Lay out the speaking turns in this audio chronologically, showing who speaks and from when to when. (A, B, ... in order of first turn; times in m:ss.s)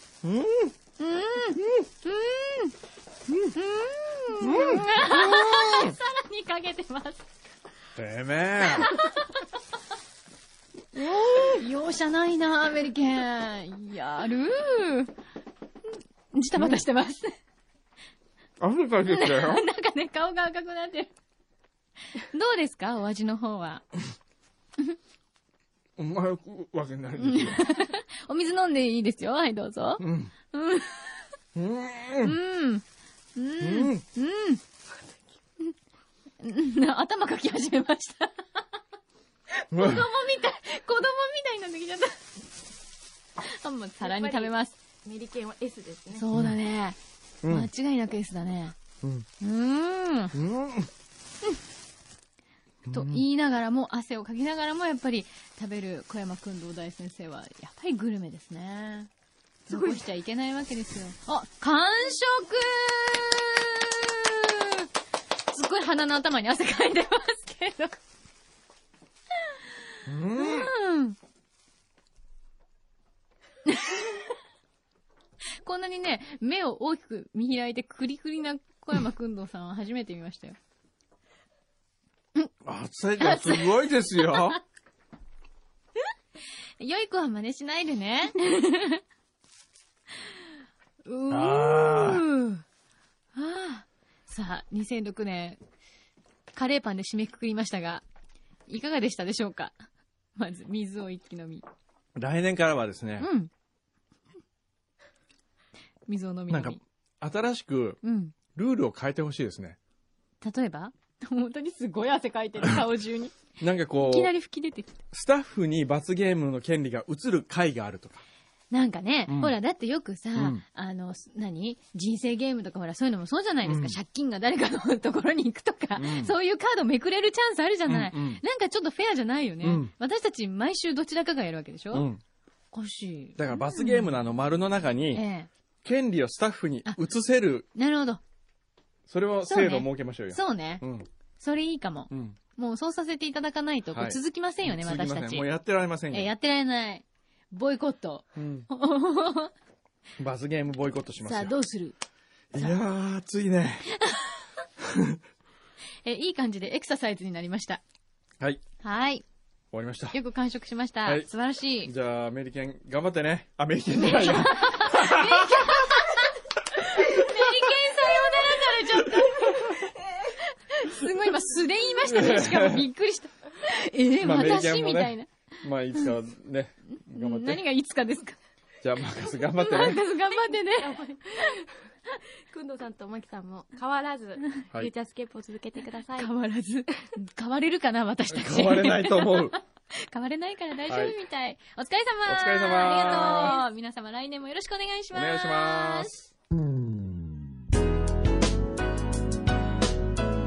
0:00.2-0:00.8 A
0:01.0-0:02.8 B
0:03.3-0:03.6 A
0:03.5-0:07.2 B
0:04.4-0:06.0 A
0:08.0-0:08.9 A
0:08.6-0:09.4 B
0:11.0-0:11.6 A
0:11.1-0:15.1 B
0:16.3-0:17.3 B
0:16.6-0:16.8 A
0:18.6-0:19.6 A
0:19.0-0:21.1 B
0:22.2-0:23.9 B
0:26.0-0:27.7 A
0:27.2-0:31.3 B
0:30.0-0:30.3 A
0:31.6-0:32.4 A
0:32.2-0:32.8 B
0:33.4-0:34.6 B
0:33.6-0:34.0 A
0:36.4-0:38.8 B
0:39.6-0:42.2 B
0:39.7-0:40.1 A
0:43.4-0:44.8 B
0:44.0-0:44.5 C
0:45.0-0:46.3 C
0:46.1-0:48.8 B
0:46.3-0:46.6 A
0:47.4-0:47.7 A
0:49.0-0:49.3 A
0:49.4-0:50.4 B
0:50.3-0:50.9 A
0:52.8-0:53.3 A
0:52.9-0:59.1 B
0:59.7-1:04.9 B
0:59.7-1:00.0 C
1:05.5-1:08.0 B
1:10.1-1:10.7 A
1:10.3-1:11.2 B
1:13.7-1:14.3 B
1:15.6-1:20.6 B
1:22.6-1:24.6 A
1:23.2-1:24.6 B
1:26.8-1:29.0 B
1:31.0-1:32.6 B
1:31.3-1:32.2 A
1:33.3-1:35.6 B
1:36.5-1:38.0 B
1:38.7-1:39.8 B
1:40.4-1:41.6 B
1:42.2-1:43.3 A
1:43.2-1:43.5 B
1:46.1-1:46.8 B
1:46.5-1:48.0 A
1:48.0-1:48.4 B
1:48.6-1:49.8 A
1:50.4-1:53.4 B
1:53.6-1:54.4 A
1:54.0-1:55.0 B
1:55.1-1:58.2 A
1:58.7-2:12.1 B
1:59.3-1:59.6 A
2:00.4-2:00.6 A
2:03.6-2:04.0 A
2:06.0-2:06.4 A
2:07.9-2:08.4 A
2:09.6-2:09.9 A
2:11.9-2:12.2 A
2:12.7-2:14.1 B
2:13.4-2:15.2 A
2:15.1-2:15.5 B
2:15.8-2:17.7 A
2:17.7-2:18.2 B
2:19.1-2:21.1 A
2:19.5-2:20.8 B
2:21.4-2:25.5 B
2:22.1-2:22.4 A
2:23.9-2:26.3 A
2:26.1-2:29.5 B
2:28.4-2:28.7 A
2:30.2-2:31.6 A
2:31.2-2:32.0 B
2:32.5-2:33.9 A
2:32.5-2:32.8 B
2:34.0-2:34.4 B
2:34.8-2:35.2 A
2:36.0-2:37.8 B
2:38.8-2:39.2 B
2:39.7-2:40.2 A
2:40.1-2:41.9 B
2:41.8-2:46.1 A
2:44.0-2:55.3 B
2:52.0-2:52.9 A
2:54.2-2:57.6 A
2:56.9-2:58.4 B
2:58.8-3:00.0 A
2:59.6-3:01.4 B
3:00.4-3:01.7 C
3:02.5-3:06.3 C
3:06.2-3:16.1 B
3:08.3-3:09.6 A
3:10.9-3:11.2 A
3:12.2-3:13.6 A
3:12.8-3:13.6 C
3:15.1-3:16.2 A